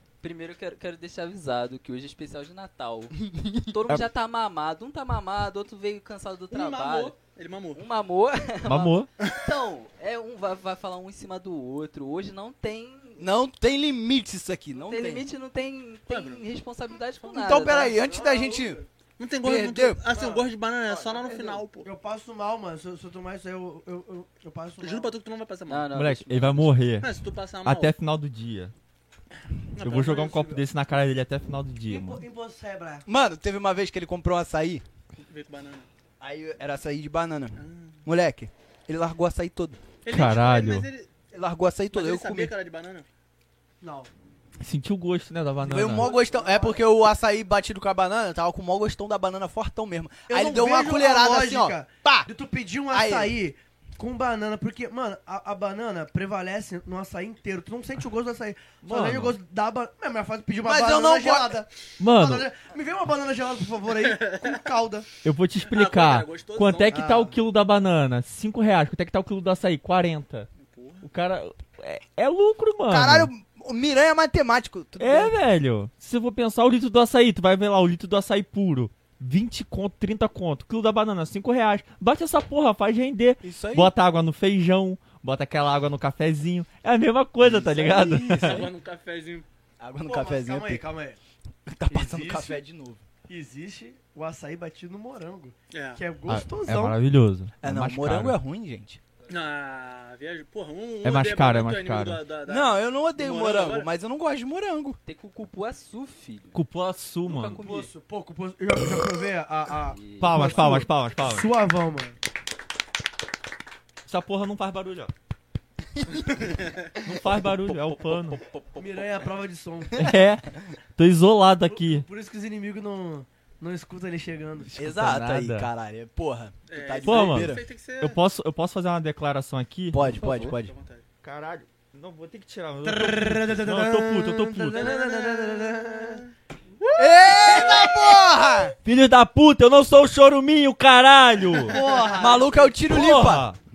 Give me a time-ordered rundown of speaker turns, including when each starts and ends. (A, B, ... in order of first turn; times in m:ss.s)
0:00.2-0:03.1 A
0:03.2-0:03.7 B
0:03.7-0:07.2 A
0:06.5-0:07.8 C
0:07.7-0:13.3 A
0:08.6-0:09.1 D
0:13.2-0:15.3 B
0:14.8-0:18.0 A
0:16.1-0:16.4 C
0:17.2-0:18.8 B
0:17.9-0:18.9 E
0:19.2-0:21.9 C
0:19.4-0:20.0 B
0:20.1-0:25.1 E
0:24.8-0:25.9 C
0:25.7-0:26.7 A
0:25.9-0:28.7 D
0:27.0-0:27.9 C
0:29.7-0:30.2 C
0:29.8-0:32.2 D
0:29.8-0:30.6 E
0:31.9-0:33.0 E
0:33.0-0:34.8 B
0:35.2-0:35.9 C
0:36.2-0:39.8 B
0:37.6-0:38.0 C
0:40.0-0:41.1 C
0:40.1-0:40.9 D
0:41.3-0:42.5 B
0:41.9-0:43.0 C
0:43.8-0:44.1 E
0:44.6-0:46.1 D
0:45.6-0:52.3 B
0:46.1-0:46.4 C
0:50.3-1:05.1 E
0:52.9-0:53.4 B
0:58.8-0:59.4 D
1:00.6-1:01.6 B
1:02.0-1:02.4 D
1:04.0-1:04.7 C
1:05.2-1:10.5 D
1:05.7-1:07.1 C
1:06.9-1:07.4 E
1:10.6-1:11.1 C
1:11.0-1:13.3 D
1:12.9-1:15.3 B
1:15.0-1:28.7 D
1:23.4-1:23.9 B
1:27.4-1:28.7 B
1:28.3-1:29.4 C
1:29.8-1:30.8 B
1:30.0-1:31.2 E
1:31.7-1:33.0 B
1:31.9-1:32.6 E
1:33.3-1:36.9 E
1:35.7-1:36.0 C
1:36.3-1:38.4 D
1:37.6-1:39.0 B
1:39.3-1:43.9 C
1:41.0-1:42.2 D
1:42.4-1:45.0 B
1:45.0-1:46.6 A
1:46.5-1:47.6 D
1:47.2-1:47.9 A
1:47.5-1:52.2 E
1:49.9-1:50.3 A
1:50.2-1:51.5 D
1:54.0-1:55.1 D
1:57.0-1:58.4 D
1:58.5-1:58.8 C
1:58.7-2:00.0 E
2:00.0-2:02.0 D
2:01.7-2:04.8 E
2:04.7-2:05.7 D
2:04.8-2:07.6 B
2:06.7-2:08.2 C
2:07.0-2:10.4 D
2:09.9-2:10.7 B
2:10.2-2:11.0 C
2:11.2-2:15.0 D
2:12.8-2:16.2 E
2:14.7-2:18.0 C
2:17.0-2:18.7 B
2:18.8-2:21.8 D
2:21.6-2:22.7 E
2:22.1-2:23.5 B
2:22.9-2:23.6 D